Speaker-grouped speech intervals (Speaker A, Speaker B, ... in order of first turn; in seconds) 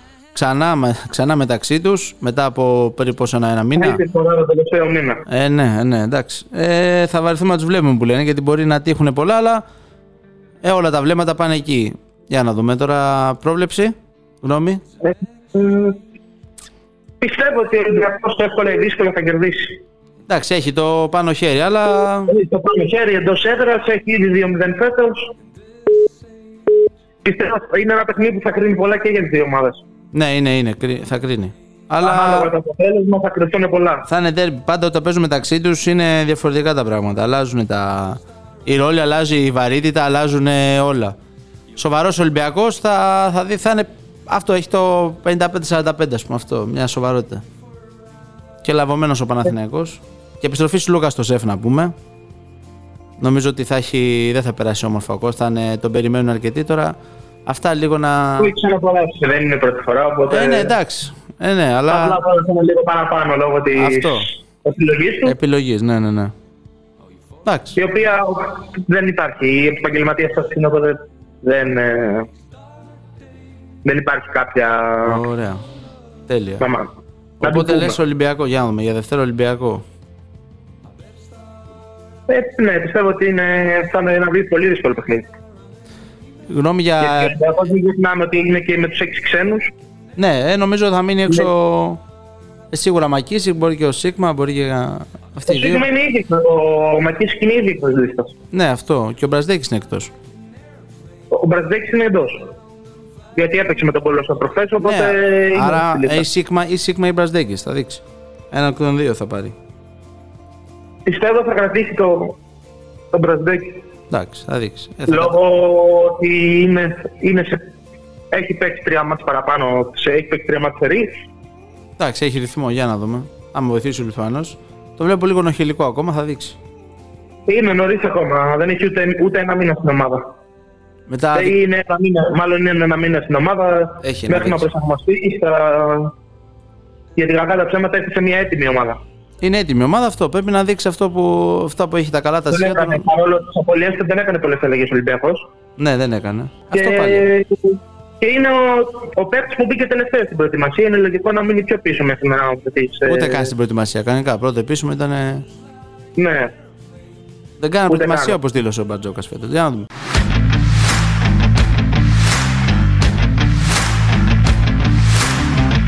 Speaker A: 0.3-4.0, 5.3-9.6, 10.6-14.8, 20.3-22.3, 30.1-32.5, 34.1-41.1, 41.8-47.4, 48.6-51.9, 53.2-56.9, 57.5-58.5, 60.3-62.2, 63.8-64.3, 65.2-66.3, 67.4-67.8, 75.0-75.6, 76.3-76.6, 77.4-79.8, 86.5-87.3, 90.2-92.0, 92.7-95.8, 98.5-100.1, 104.8-109.5, 114.1-115.3, 122.0-126.6, 131.1-131.5, 134.0-134.6, 139.4-143.0, 145.8-147.2, 153.1-155.4, 157.6-159.8
Speaker B: 3.8-5.2, 15.0-16.0, 17.2-19.8, 22.3-25.3, 27.2-29.8, 32.0-34.1, 58.4-60.7, 61.9-65.3, 67.8-72.3, 73.8-75.2, 76.6-76.9, 77.4-78.0, 82.3-85.3, 87.0-89.7, 95.5-98.3, 101.3-102.5, 103.3-106.2, 111.0-112.4, 113.1-113.8, 115.1-117.7, 118.3-121.1, 127.5-130.2, 131.3-136.1, 137.2-139.0, 142.5-145.5, 146.7-153.5, 156.2-156.5, 157.9-158.4